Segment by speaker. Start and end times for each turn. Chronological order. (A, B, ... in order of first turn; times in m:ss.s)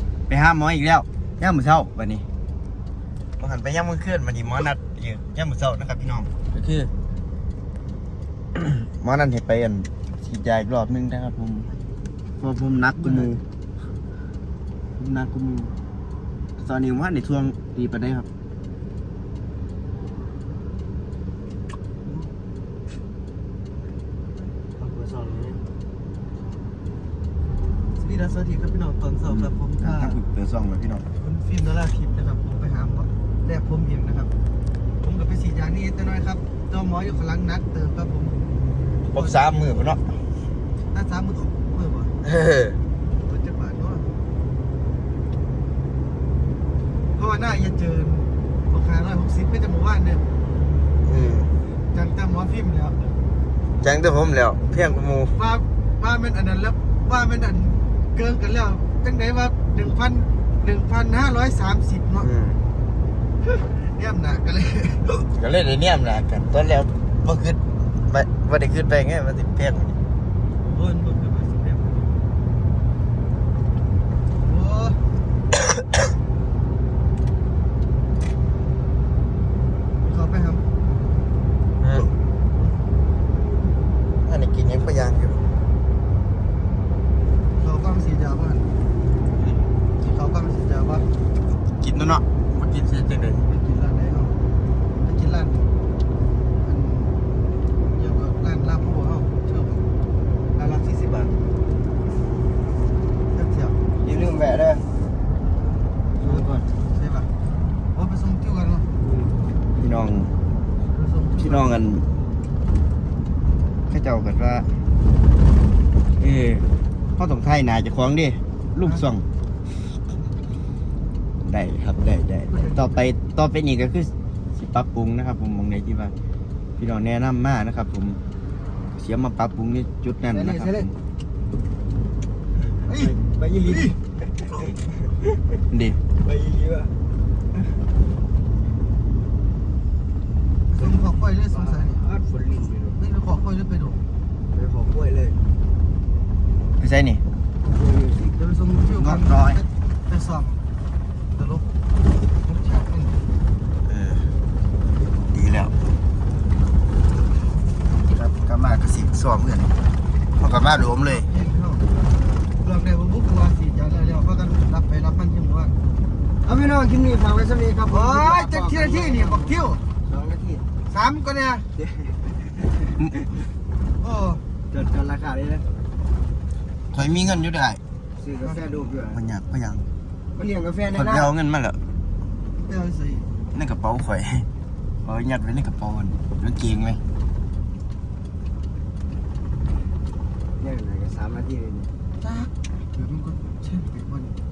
0:00.3-0:02.2 A
0:03.4-0:06.9 A
0:08.6-0:11.7 A
0:12.4-0:13.4 A
0:13.0-0:13.3 B
0:15.0-0:15.7 A
0:16.6-0:18.3 A
0:24.8-0:25.6 C
0:28.0-0:30.2 B
0:29.2-0:31.0 A
0:31.2-0:34.3 B
0:35.0-0:38.3 B
0:39.1-0:39.4 B
0:39.1-0:40.2 A
0:40.9-0:42.1 B
0:42.2-0:42.8 A
0:43.2-0:44.1 B
0:47.2-0:50.2 B
0:51.0-0:51.5 A
0:51.9-0:53.0 B
0:53.8-0:55.4 A
0:55.4-1:02.3 B
1:02.2-1:02.6 A
1:03.5-1:05.1 B
1:05.3-1:10.0 A
1:10.6-1:12.1 B
1:14.4-1:15.0 B
1:20.0-1:20.6 B
1:21.8-1:22.1 A
1:24.2-1:25.4 A
1:27.6-1:28.7 B
1:30.0-1:31.0 B
1:31.8-1:33.5 A
1:33.5-1:34.3 B
1:35.0-1:35.6 B
1:36.6-1:37.1 B
1:37.9-1:39.8 B
1:40.6-1:41.3 B
1:43.3-1:43.8 B
1:44.0-1:44.8 C
1:46.2-1:46.6 C
1:46.2-1:47.3 B
1:47.9-1:48.9 B
1:49.8-1:50.3 A
1:50.9-1:51.7 B
1:51.4-1:52.1 A
1:53.9-1:54.7 A
1:56.2-1:59.2 A
2:01.4-2:06.1 A
2:02.5-2:02.8 B
2:06.8-2:08.2 A
2:09.0-2:11.0 A
2:10.3-2:10.8 C
2:12.8-2:13.1 B
2:12.9-2:14.0 C
2:13.7-2:13.9 B
2:15.7-2:16.0 A
2:16.2-2:16.9 C
2:20.7-2:22.0 B
2:20.8-2:23.0 C
2:23.0-2:24.0 B
2:24.5-2:25.4 C
2:26.8-2:27.2 A
2:27.6-2:28.4 C
2:28.4-2:30.6 B
2:28.9-2:29.6 A
2:31.4-2:31.6 B
2:32.5-2:33.1 B
2:33.8-2:34.3 A
2:35.3-2:35.7 A
2:38.2-2:39.7 A
2:40.4-2:41.3 A
2:41.0-2:41.8 B
2:42.6-2:45.7 B
2:46.4-2:50.6 C
2:47.9-2:49.8 B
2:50.9-2:51.6 B
2:51.8-2:52.3 C
2:53.0-2:53.3 A
2:54.0-2:54.4 B
2:54.7-2:55.6 C
2:56.9-2:57.8 A
2:58.2-2:59.2 C
2:59.1-2:59.8 A
3:00.3-3:01.3 C
3:00.9-3:01.8 A
3:02.6-3:03.3 B
3:03.5-3:04.5 A
3:05.0-3:07.0 A
3:10.6-3:11.9 C
3:12.2-3:14.3 B